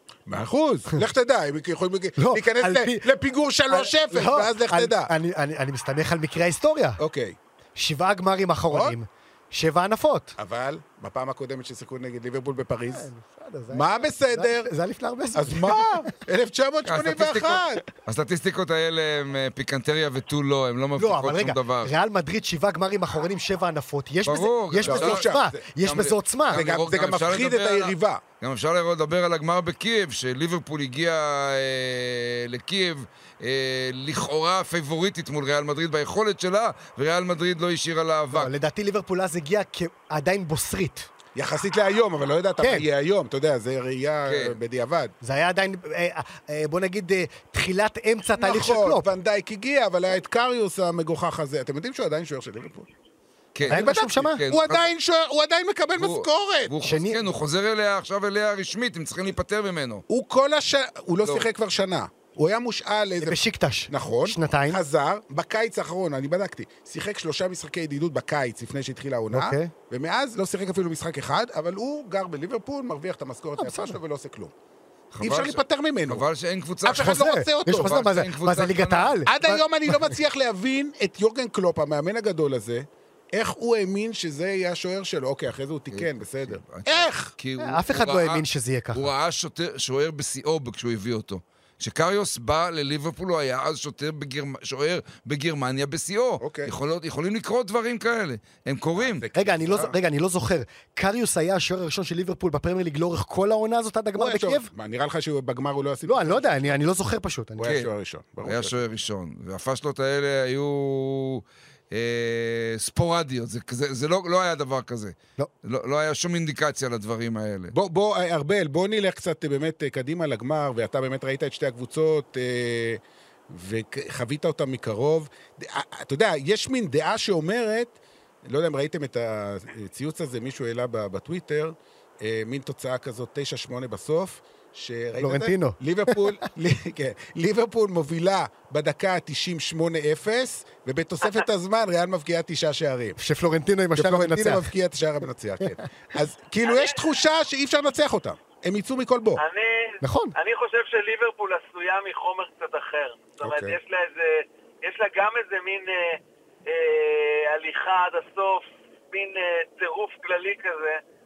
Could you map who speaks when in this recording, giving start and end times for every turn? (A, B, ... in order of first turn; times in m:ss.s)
0:00.3-0:05.1 A
0:02.2-0:03.1 B
0:03.7-0:07.0 B
0:07.0-0:07.4 A
0:07.8-0:10.4 B
0:10.4-0:13.1 A
0:12.9-0:15.9 B
0:13.7-0:14.7 A
0:15.3-0:17.8 A
0:16.9-0:21.9 C
0:21.0-0:26.6 B
0:24.3-0:25.3 C
0:24.8-0:25.7 A
0:25.8-0:38.5 C
0:26.5-0:28.2 A
0:38.3-0:41.1 B
0:41.4-0:45.1 A
0:44.3-0:44.6 C
0:45.2-0:49.1 B
0:48.4-0:52.9 A
0:53.6-0:54.9 C
0:53.7-0:56.7 A
0:53.7-0:54.4 B
0:56.0-1:00.0 C
0:56.8-0:57.2 B
1:00.1-1:14.5 A
1:03.2-1:04.8 B
1:09.3-1:09.7 B
1:13.6-1:14.0 B
1:15.1-1:19.2 C
1:15.2-1:16.2 A
1:16.8-1:18.1 A
1:16.9-1:20.2 B
1:19.3-1:27.3 A
1:25.9-1:28.4 C
1:27.6-1:29.1 B
1:28.9-1:39.2 C
1:36.4-1:36.7 A
1:39.0-1:40.0 A
1:39.4-1:44.7 B
1:44.2-1:46.8 A
1:46.1-1:47.7 B
1:47.6-1:48.8 A
1:47.6-1:47.9 C
1:48.4-1:57.7 C
1:57.7-2:23.2 A
2:15.2-2:16.2 B
2:23.2-2:24.7 B
2:24.0-2:29.4 A
2:26.7-2:27.0 D
2:29.4-2:41.0 D
2:30.0-2:30.3 B
2:33.4-2:33.8 A